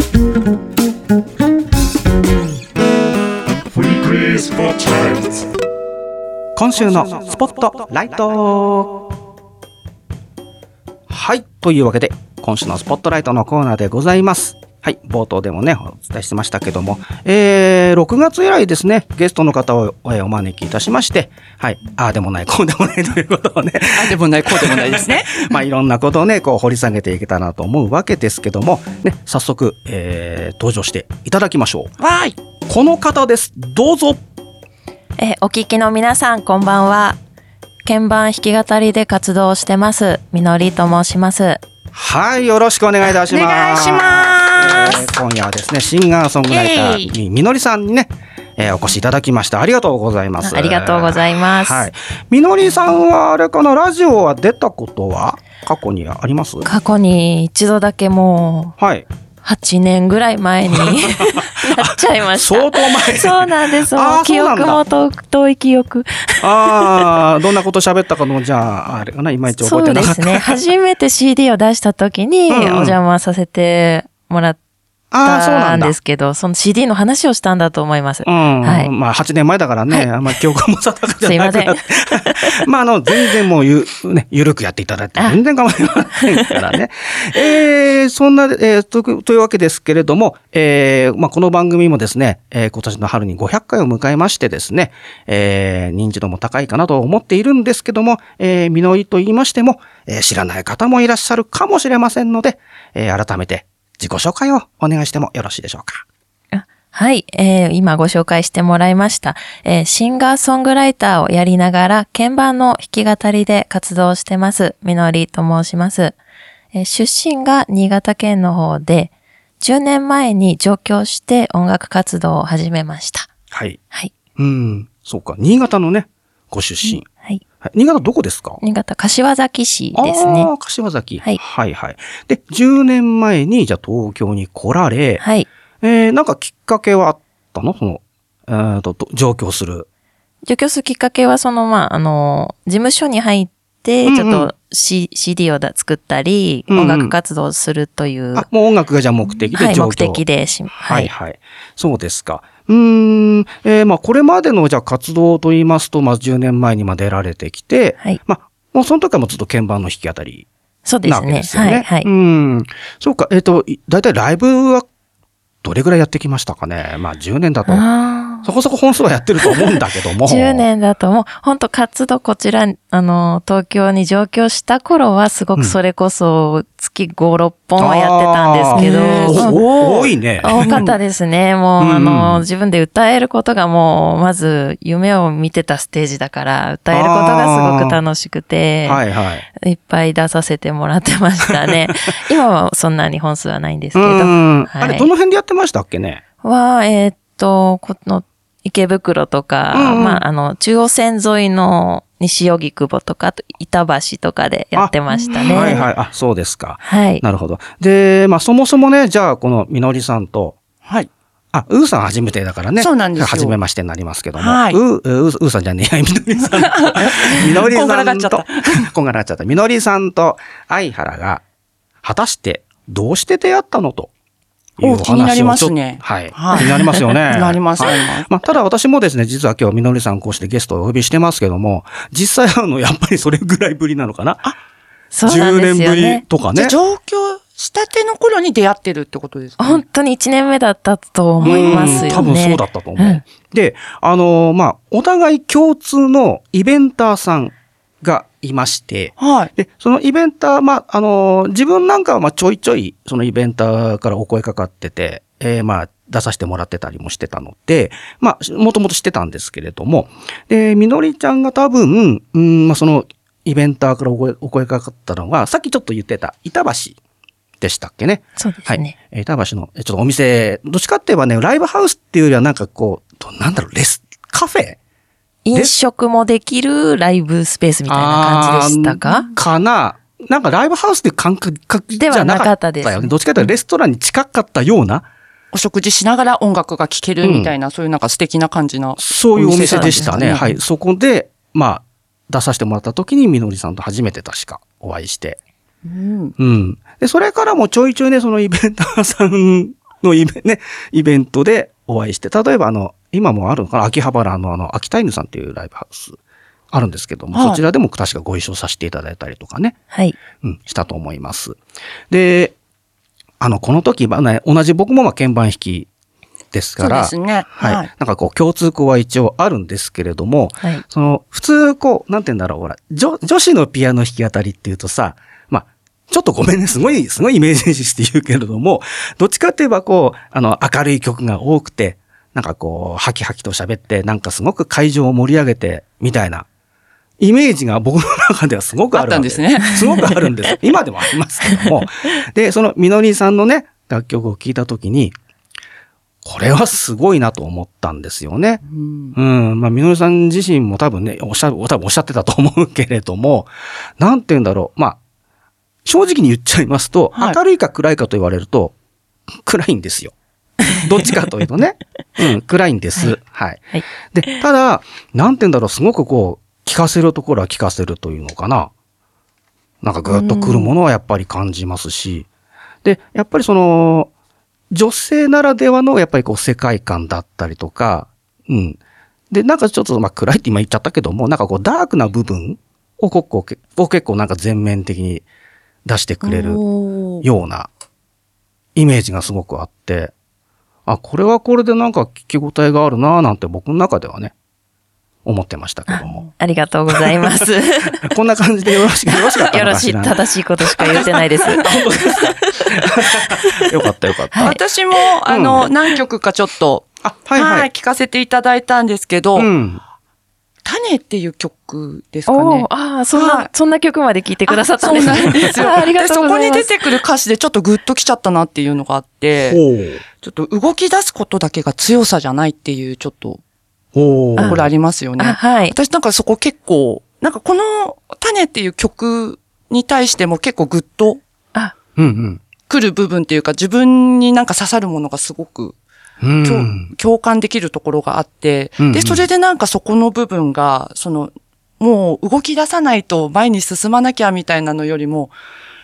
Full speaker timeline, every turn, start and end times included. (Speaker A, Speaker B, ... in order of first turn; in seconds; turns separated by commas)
Speaker A: 6.6-9.1, Speaker A: 11.1-31.9, Speaker B: 23.9-25.5, Speaker B: 32.0-32.4, Speaker A: 32.7-34.2, Speaker C: 35.2-37.2, Speaker C: 37.8-41.6, Speaker A: 41.9-56.6, Speaker B: 43.3-45.1, Speaker B: 46.5-47.1, Speaker C: 50.4-51.9, Speaker C: 56.6-58.8, Speaker A: 58.8-59.1, Speaker C: 59.4-67.1, Speaker A: 60.7-64.8, Speaker A: 66.4-70.6, Speaker C: 69.6-74.6, Speaker A: 72.5-73.0, Speaker A: 75.1-76.0, Speaker C: 75.2-78.9, Speaker A: 78.2-106.0, Speaker C: 81.2-82.6, Speaker C: 86.2-86.5, Speaker C: 106.5-116.2, Speaker C: 116.7-123.3, Speaker A: 123.5-123.8, Speaker A: 124.3-127.1, Speaker C: 126.8-127.4, Speaker A: 127.6-128.6, Speaker C: 128.6-130.5, Speaker A: 129.9-135.2, Speaker C: 135.2-135.5, Speaker A: 135.8-139.9, Speaker C: 140.4-148.5, Speaker A: 144.0-144.5, Speaker A: 146.7-147.1, Speaker A: 148.3-160.5, Speaker C: 149.5-151.1, Speaker C: 160.9-162.1, Speaker A: 161.0-164.9, Speaker A: 165.6-167.8, Speaker C: 167.7-168.5, Speaker A: 168.4-170.7, Speaker C: 170.2-189.0, Speaker A: 177.8-180.8, Speaker B: 178.7-179.7, Speaker B: 180.5-180.9, Speaker A: 181.8-182.4, Speaker A: 186.9-188.0, Speaker A: 188.8-189.4, Speaker C: 189.6-195.1, Speaker A: 193.9-196.2, Speaker C: 196.4-205.8, Speaker A: 199.7-200.2, Speaker B: 205.1-205.9, Speaker A: 205.5-210.6, Speaker C: 206.8-207.2, Speaker B: 210.8-211.1, Speaker A: 211.5-221.4, Speaker B: 212.8-213.6, Speaker B: 214.4-214.8, Speaker B: 216.5-218.9, Speaker A: 222.0-224.1, Speaker A: 224.8-234.5, Speaker B: 224.8-228.3, Speaker C: 235.1-236.2, Speaker A: 235.2-236.8, Speaker B: 236.5-239.8, Speaker C: 239.6-243.2, Speaker B: 241.4-242.2, Speaker A: 241.4-267.0, Speaker B: 249.2-249.5, Speaker A: 267.6-274.8, Speaker C: 268.4-268.9, Speaker C: 275.4-279.2, Speaker A: 277.9-285.1, Speaker C: 282.0-283.5, Speaker B: 285.5-290.5, Speaker A: 287.2-287.5, Speaker A: 289.0-295.4, Speaker C: 289.6-290.6, Speaker B: 295.9-296.3, Speaker A: 296.4-306.2, Speaker A: 306.7-309.8, Speaker B: 307.3-307.6, Speaker A: 310.3-311.6, Speaker A: 312.1-312.6, Speaker A: 313.4-315.9, Speaker A: 316.5-336.5, Speaker B: 316.8-317.9, Speaker A: 337.2-345.1, Speaker B: 338.9-339.8, Speaker A: 346.2-348.6, Speaker B: 348.6-349.1, Speaker A: 349.1-355.0, Speaker A: 355.9-358.7, Speaker A: 359.4-360.1, Speaker A: 360.7-368.7, Speaker C: 363.7-364.4, Speaker A: 369.8-372.3, Speaker C: 370.1-370.7, Speaker A: 372.8-374.1, Speaker A: 374.7-378.8, Speaker A: 379.3-385.2, Speaker A: 385.9-386.6, Speaker B: 386.2-387.2, Speaker A: 387.2-387.7, Speaker A: 388.8-390.1, Speaker A: 390.9-394.3, Speaker A: 395.2-396.2, Speaker C: 395.9-398.1, Speaker A: 396.9-397.4, Speaker A: 397.9-400.2, Speaker C: 399.1-402.6, Speaker A: 400.7-404.6, Speaker B: 400.8-401.1, Speaker C: 404.3-404.6, Speaker B: 404.4-409.5, Speaker A: 405.3-405.7, Speaker A: 407.0-407.7, Speaker A: 409.4-409.8, Speaker B: 410.6-413.5, Speaker C: 412.3-416.7, Speaker B: 414.5-419.6, Speaker A: 419.4-420.0, Speaker B: 420.2-423.4, Speaker A: 423.9-424.7, Speaker B: 424.4-431.2, Speaker C: 425.2-425.8, Speaker A: 432.0-432.4, Speaker B: 432.7-435.8, Speaker A: 436.2-436.9, Speaker B: 436.4-445.3, Speaker A: 438.8-439.3